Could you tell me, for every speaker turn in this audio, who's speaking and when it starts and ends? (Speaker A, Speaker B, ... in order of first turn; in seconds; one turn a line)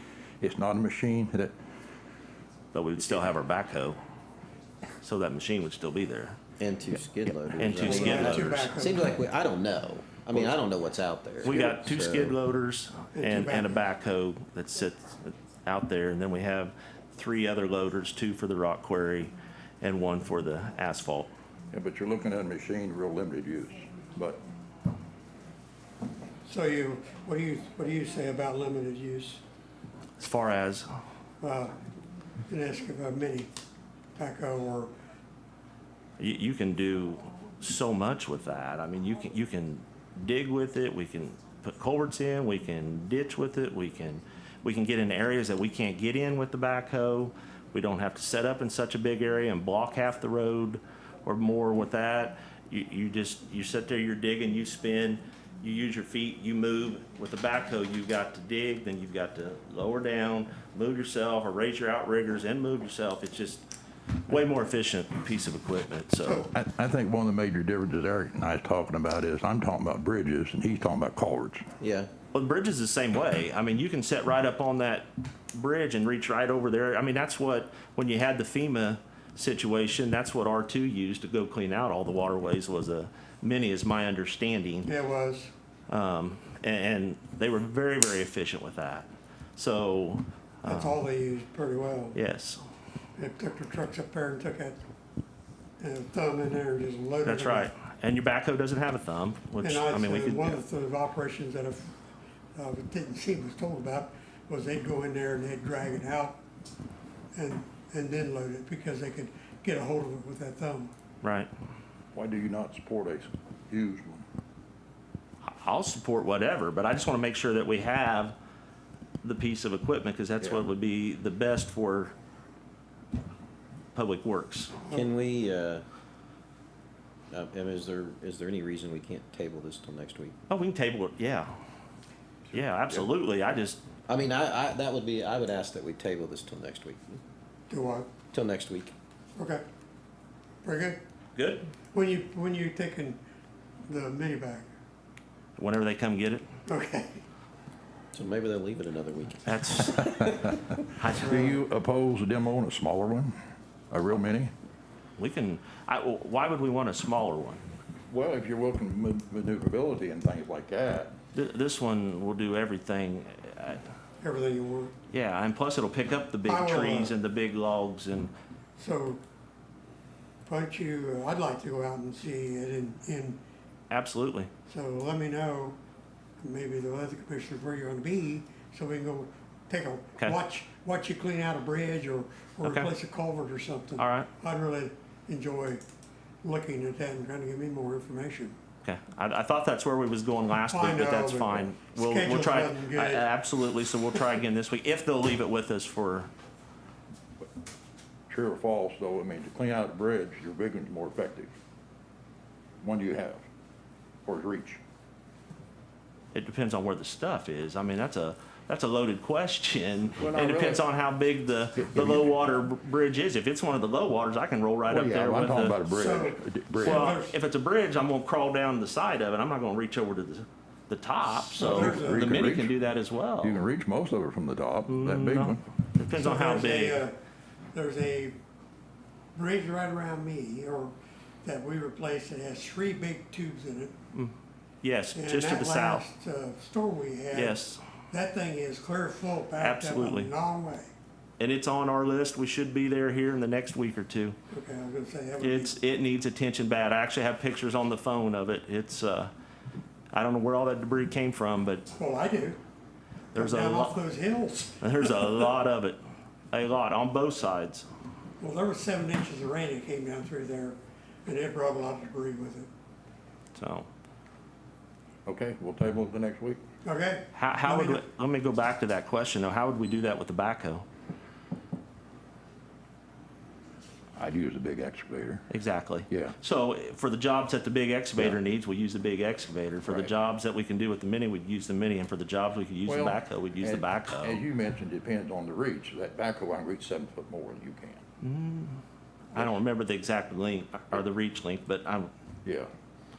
Speaker A: 0.4-1.5
Speaker B: 2.7-4.0
Speaker B: 5.0-6.4
Speaker C: 6.6-12.3
Speaker B: 7.3-8.7
Speaker D: 7.8-9.1
Speaker B: 11.4-21.3
Speaker D: 11.5-11.8
Speaker D: 13.1-13.9
Speaker A: 21.7-24.4
Speaker D: 26.5-29.4
Speaker B: 30.2-31.0
Speaker D: 31.4-31.7
Speaker D: 32.5-33.5
Speaker D: 34.2-34.9
Speaker B: 36.2-63.6
Speaker B: 64.3-66.5
Speaker A: 66.5-71.7
Speaker C: 71.8-72.1
Speaker B: 72.3-84.9
Speaker D: 84.8-85.5
Speaker B: 85.9-91.0
Speaker D: 90.7-92.2
Speaker B: 92.1-92.6
Speaker D: 93.2-94.8
Speaker D: 95.8-97.7
Speaker B: 97.2-100.6
Speaker D: 99.6-101.9
Speaker D: 102.5-106.4
Speaker D: 107.3-110.9
Speaker B: 111.2-111.5
Speaker A: 112.2-114.2
Speaker B: 115.5-118.3
Speaker B: 119.2-122.1
Speaker B: 124.0-124.9
Speaker C: 124.9-125.8
Speaker C: 127.3-130.4
Speaker B: 130.5-131.5
Speaker A: 132.5-133.1
Speaker B: 132.5-133.8
Speaker C: 134.1-137.2
Speaker D: 137.7-138.1
Speaker C: 138.3-138.9
Speaker D: 139.4-139.6
Speaker D: 140.6-141.0
Speaker B: 141.4-141.7
Speaker D: 141.9-143.2
Speaker D: 143.9-144.7
Speaker B: 145.6-146.4
Speaker D: 146.7-147.2
Speaker C: 148.1-150.0
Speaker B: 149.4-150.2
Speaker A: 150.2-153.4
Speaker B: 151.0-151.5
Speaker D: 151.2-151.6
Speaker A: 153.9-154.5
Speaker B: 155.2-157.6
Speaker A: 158.1-161.2
Speaker B: 161.3-163.8
Speaker D: 164.2-164.9
Speaker B: 165.1-168.3
Speaker D: 166.5-167.1
Speaker D: 168.8-169.2
Speaker D: 170.4-173.4
Speaker B: 173.9-174.5
Speaker D: 174.7-175.8
Speaker D: 176.4-185.8
Speaker B: 182.6-182.9
Speaker B: 184.0-184.3
Speaker D: 186.4-188.6
Speaker B: 188.8-196.3
Speaker D: 190.7-193.3
Speaker A: 198.3-201.5
Speaker A: 202.8-203.4
Speaker A: 204.3-204.8
Speaker B: 206.3-215.8
Speaker A: 210.2-210.8
Speaker A: 211.8-212.2
Speaker A: 214.9-217.2
Speaker D: 215.9-217.4
Speaker B: 216.8-223.6
Speaker D: 221.6-222.3
Speaker A: 221.6-222.7
Speaker A: 223.4-225.7
Speaker B: 224.9-227.0
Speaker D: 226.2-227.2
Speaker D: 227.7-228.4
Speaker D: 229.3-230.9
Speaker D: 231.4-233.9
Speaker B: 234.1-236.1
Speaker D: 235.2-237.6
Speaker B: 237.3-237.8
Speaker D: 238.1-240.9
Speaker B: 239.6-240.3
Speaker B: 241.4-244.4
Speaker D: 244.5-245.8
Speaker B: 245.4-249.3
Speaker B: 250.1-251.9
Speaker D: 251.9-252.6
Speaker D: 253.3-255.2
Speaker B: 253.3-254.0
Speaker B: 254.8-256.0
Speaker B: 256.5-257.9
Speaker D: 258.4-262.7
Speaker B: 263.6-263.9
Speaker A: 265.3-266.6
Speaker D: 266.8-268.0
Speaker B: 267.3-270.9
Speaker A: 274.2-275.5
Speaker B: 275.5-284.4
Speaker A: 276.1-276.4
Speaker A: 279.9-280.1
Speaker A: 282.9-288.0
Speaker B: 288.2-288.8
Speaker B: 289.3-292.1
Speaker A: 292.4-292.7